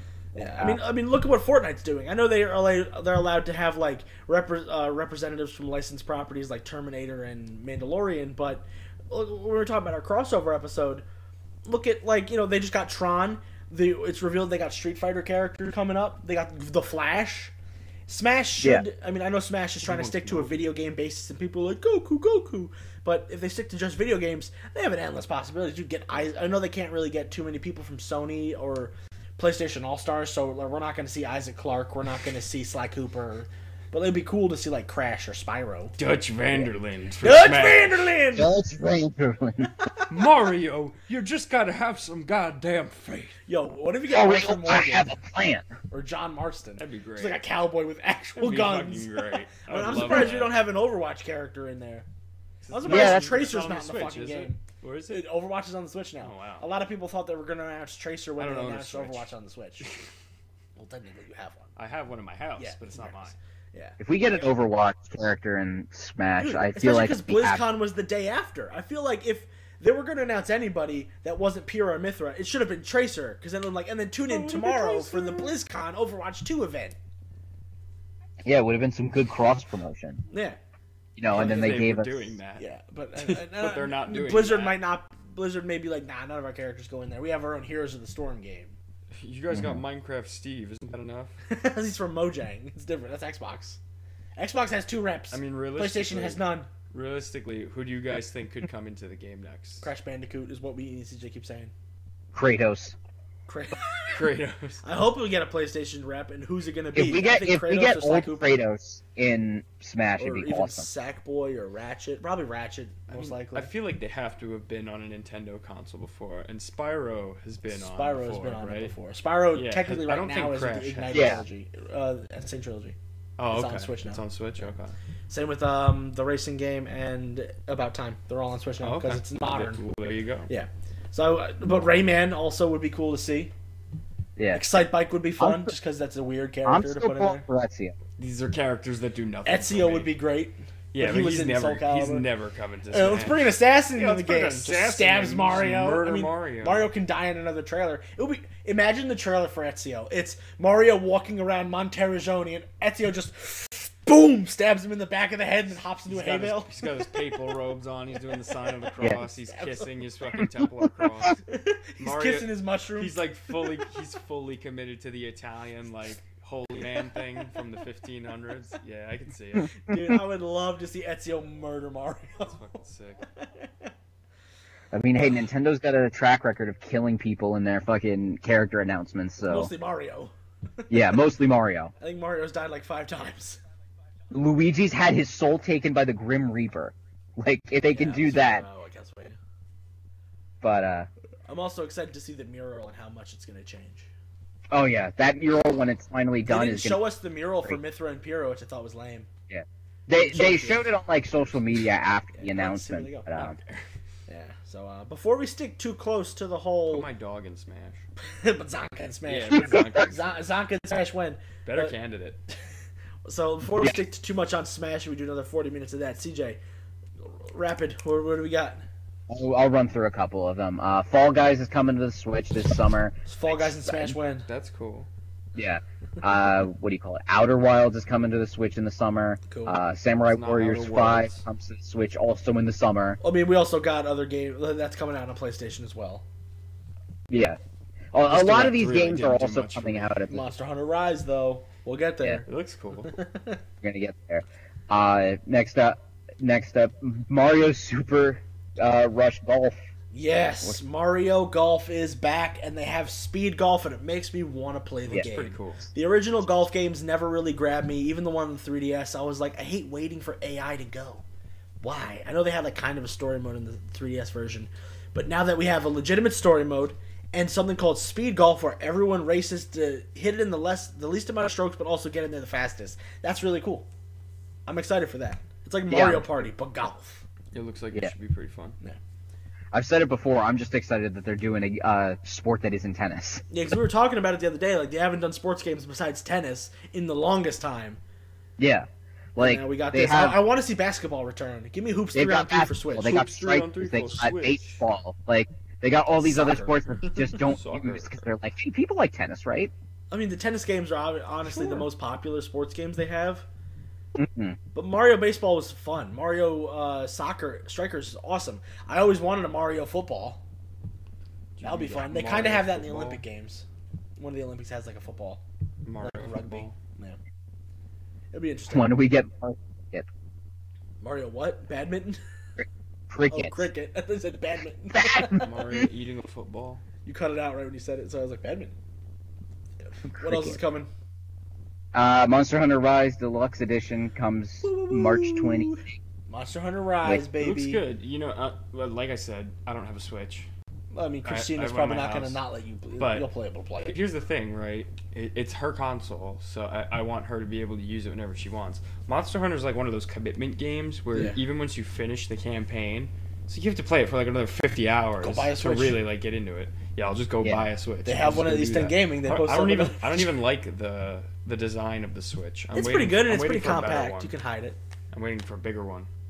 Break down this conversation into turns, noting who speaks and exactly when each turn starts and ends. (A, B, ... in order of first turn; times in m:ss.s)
0:00.4-0:11.0 A
0:00.4-0:00.8 B
0:11.7-0:17.5 A
0:18.1-0:35.9 A
0:19.8-0:20.6 C
0:36.0-0:38.1 C
0:37.2-0:38.5 A
0:38.4-0:39.7 B
0:40.1-0:43.4 C
0:43.5-0:45.1 A
0:44.1-0:45.7 B
0:45.9-0:52.1 A
0:46.8-0:47.4 C
0:48.4-0:50.6 C
0:52.6-0:55.3 C
0:52.7-1:00.0 A
0:52.9-0:53.4 B
0:56.2-0:56.7 C
0:58.4-0:59.3 C
0:59.8-1:00.1 C
1:00.8-1:01.7 A
1:01.8-1:03.4 C
1:02.6-1:04.0 A
1:04.0-1:07.6 B
1:06.4-1:17.0 A
1:14.3-1:15.5 C
1:18.5-1:20.2 B
1:20.3-1:20.6 A
1:21.2-1:22.3 B
1:21.3-1:22.7 C
1:21.3-1:21.8 A
1:22.6-1:28.8 A
1:23.2-1:24.8 C
1:29.1-1:31.3 C
1:29.5-1:29.8 B
1:31.5-1:33.8 A
1:34.4-1:36.7 A
1:35.3-1:39.9 C
1:39.8-1:41.7 A
1:42.3-1:43.0 B
1:43.5-1:44.2 A
1:44.1-1:44.8 C
1:44.8-1:48.6 A
1:47.0-1:50.9 B
1:50.2-1:53.7 A
1:53.1-1:58.9 C
1:57.7-2:03.0 A
1:59.5-2:01.4 C
2:01.1-2:01.4 B
2:03.4-2:05.0 C
2:03.5-2:04.2 A
2:05.3-2:09.8 A
2:08.8-2:10.5 C
2:10.5-2:13.5 A
2:14.4-2:14.6 B
2:14.5-2:17.4 A
2:15.4-2:15.7 B
2:16.6-2:18.0 B
2:18.2-2:20.1 C
2:19.4-2:22.3 A
2:20.9-2:26.9 C
2:22.9-2:36.7 A
2:36.1-2:41.4 C
2:39.1-2:39.9 A
2:41.4-2:43.2 A
2:42.0-2:49.8 C
2:49.8-2:52.7 A
2:52.4-2:53.2 C
2:53.4-2:53.9 A
2:54.9-2:59.7 B
2:59.5-3:01.1 A
3:00.9-3:01.9 B
3:02.0-3:03.6 A
3:04.3-3:08.6 B
3:07.9-3:09.4 A
3:10.6-3:11.1 B
3:11.5-3:14.1 A
3:14.7-3:17.0 B
3:16.5-3:19.3 A
3:19.5-3:23.6 B
3:20.1-3:21.0 A
3:22.3-3:23.3 A
3:23.4-3:23.8 C
3:24.3-3:27.1 A
3:26.9-3:28.0 C
3:28.2-3:32.0 A
3:29.3-3:30.4 C
3:31.6-3:32.4 C
3:33.2-3:36.6 A
3:37.2-3:38.8 A
3:39.3-3:44.2 B
3:43.3-3:44.5 A
3:44.5-3:45.1 C
3:45.6-3:53.2 B
3:49.5-3:49.8 A
3:50.3-3:51.4 C
3:53.2-3:56.2 A
3:57.3-3:57.6 B
3:58.1-4:00.5 B
3:58.2-4:00.1 C
4:00.3-4:02.5 A
4:02.5-4:03.2 C
4:03.1-4:03.6 A
4:03.8-4:09.8 B
4:10.1-4:21.2 A
4:15.1-4:15.9 C
4:21.8-4:33.9 A
4:34.7-4:37.2 A
4:35.9-4:36.5 B
4:37.5-4:38.8 C
4:39.7-4:43.4 B
4:43.5-4:48.0 A
4:48.6-4:50.4 B
4:49.4-4:53.2 A
4:52.1-4:59.7 B
4:53.0-4:54.8 C
4:56.2-4:57.4 A
4:57.4-4:58.3 C
5:00.1-5:03.5 A
5:04.2-5:04.6 B
5:04.7-5:10.4 A
5:11.6-5:13.2 C
5:11.6-5:13.6 A
5:14.2-5:15.4 A
5:15.8-5:16.8 C
5:16.0-5:17.2 A
5:18.3-5:18.9 A
5:18.7-5:20.1 B
5:21.0-5:22.2 A
5:23.1-5:23.7 B
5:23.3-5:25.5 A
5:24.9-5:25.4 B
5:25.4-5:26.8 C
5:27.0-5:28.7 A
5:29.9-5:30.9 A
5:30.1-5:30.6 B
5:31.9-5:35.9 B
5:34.6-5:37.8 A
5:37.4-5:40.5 C
5:40.9-5:44.0 A
5:41.2-5:42.4 C
5:43.0-5:43.3 C
5:43.8-6:04.3 C
5:55.2-5:56.0 A
5:58.0-6:00.3 A
6:02.7-6:04.8 A
6:05.1-6:06.1 C